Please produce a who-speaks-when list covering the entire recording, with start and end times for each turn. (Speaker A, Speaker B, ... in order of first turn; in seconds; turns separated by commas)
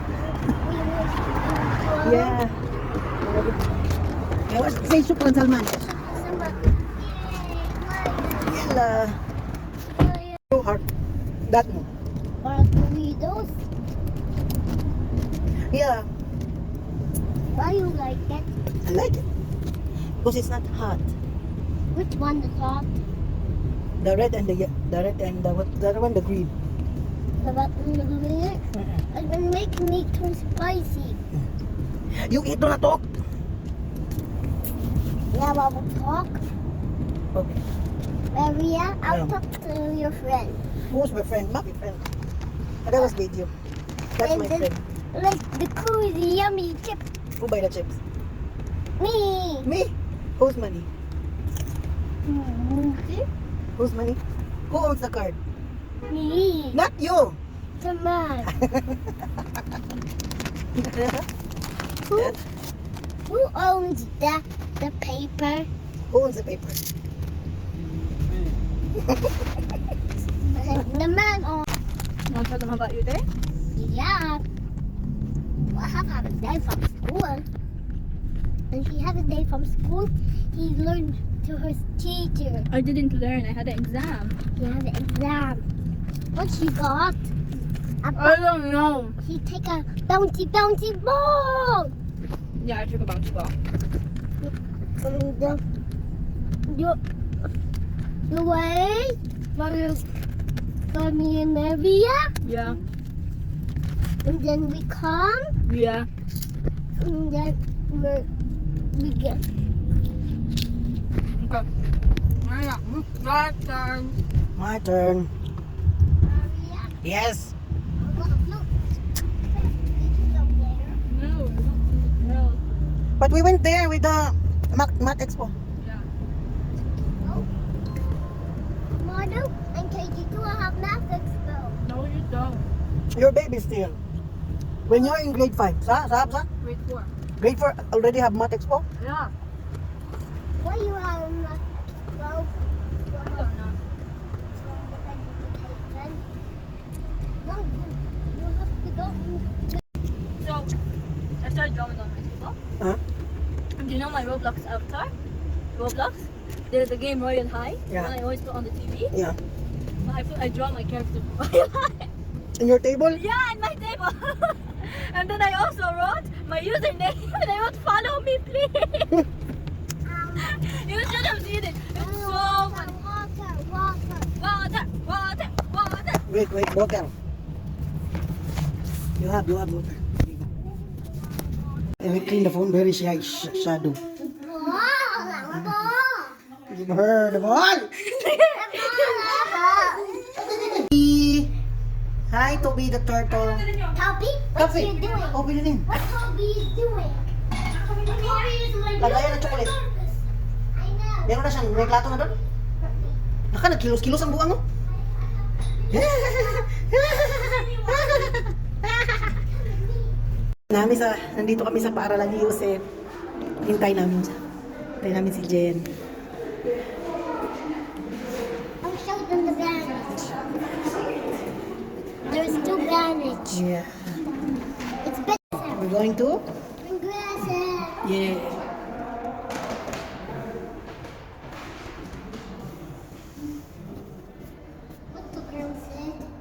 Speaker A: 0.1-2.4, Speaker B: 2.0-2.6, Speaker B: 3.2-3.6, Speaker B: 4.5-5.7, Speaker A: 5.7-8.7, Speaker B: 8.4-9.2, Speaker A: 9.8-10.4, Speaker B: 10.5-10.8, Speaker B: 11.4-11.9, Speaker A: 12.4-13.6, Speaker B: 15.7-16.1, Speaker A: 17.5-18.5, Speaker B: 18.8-19.2, Speaker B: 20.2-21.1, Speaker A: 21.9-23.0, Speaker B: 24.0-26.5, Speaker A: 27.4-31.2, Speaker B: 28.7-29.0, Speaker B: 32.1-33.1, Speaker A: 35.3-36.4, Speaker B: 37.3-37.6, Speaker A: 38.3-40.6, Speaker B: 39.0-39.3, Speaker B: 40.9-42.1, Speaker B: 42.8-43.5, Speaker B: 44.1-44.8, Speaker A: 44.2-47.0, Speaker B: 47.4-48.0, Speaker A: 49.0-49.7, Speaker B: 49.6-50.9, Speaker A: 52.2-53.2, Speaker B: 53.8-55.4, Speaker A: 56.1-56.8, Speaker B: 56.7-57.4, Speaker A: 57.8-58.5, Speaker B: 58.5-59.0, Speaker B: 60.8-61.2, Speaker A: 62.1-62.3, Speaker A: 63.3-65.7, Speaker B: 66.1-66.8, Speaker A: 70.5-71.7, Speaker C: 72.3-73.2, Speaker A: 73.8-74.4, Speaker A: 75.7-77.5, Speaker A: 78.7-82.7, Speaker C: 82.7-84.3, Speaker A: 84.5-85.6, Speaker A: 86.3-87.3, Speaker A: 88.0-88.4, Speaker C: 88.1-89.1, Speaker A: 89.2-91.9, Speaker C: 92.6-93.5, Speaker A: 94.4-95.6, Speaker A: 96.7-97.0, Speaker A: 98.3-100.0, Speaker A: 100.9-102.3, Speaker C: 102.4-102.8, Speaker A: 104.2-105.5, Speaker C: 105.6-106.1, Speaker A: 107.0-108.3, Speaker A: 108.9-109.4, Speaker C: 111.4-111.7, Speaker C: 112.4-114.2, Speaker B: 114.5-115.3, Speaker A: 116.2-117.0, Speaker B: 117.0-117.5, Speaker A: 118.0-118.7, Speaker A: 119.4-121.0, Speaker C: 121.0-122.8, Speaker B: 123.2-125.5, Speaker C: 125.8-126.1, Speaker A: 127.2-127.5, Speaker A: 129.0-131.8, Speaker C: 131.8-132.7, Speaker B: 133.1-134.0, Speaker B: 134.9-136.5, Speaker A: 134.9-135.1, Speaker C: 136.6-137.1, Speaker B: 137.4-138.8, Speaker C: 139.0-139.3, Speaker A: 140.6-142.6, Speaker A: 143.1-143.6, Speaker C: 143.3-143.8, Speaker A: 144.5-146.2, Speaker A: 147.4-149.8, Speaker C: 150.4-150.7, Speaker C: 151.4-152.6, Speaker C: 153.8-155.1, Speaker C: 155.7-159.1, Speaker B: 157.9-158.1, Speaker B: 159.1-159.4, Speaker C: 160.0-162.1, Speaker B: 162.6-163.2, Speaker C: 163.1-169.2, Speaker A: 170.0-170.6, Speaker C: 170.4-172.9, Speaker A: 171.9-174.4, Speaker C: 174.4-176.2, Speaker B: 176.2-177.1, Speaker B: 179.2-180.5, Speaker B: 182.0-184.0, Speaker A: 184.4-186.4, Speaker B: 186.7-187.9, Speaker C: 188.1-189.4, Speaker A: 188.5-190.6, Speaker B: 190.4-191.6, Speaker B: 192.3-193.7, Speaker A: 193.9-197.3, Speaker B: 194.5-195.9, Speaker A: 197.9-203.2, Speaker B: 199.0-199.8, Speaker B: 201.2-202.3, Speaker B: 203.5-204.6, Speaker A: 204.9-206.5, Speaker B: 205.9-209.1, Speaker A: 207.4-208.2, Speaker A: 209.3-210.1, Speaker B: 210.7-212.8, Speaker B: 213.6-214.4, Speaker B: 215.0-215.9, Speaker A: 218.8-220.5, Speaker A: 222.3-223.6, Speaker B: 223.5-224.2, Speaker A: 225.0-225.8, Speaker B: 225.7-226.4, Speaker A: 226.8-228.0, Speaker B: 228.0-228.6, Speaker A: 235.1-236.3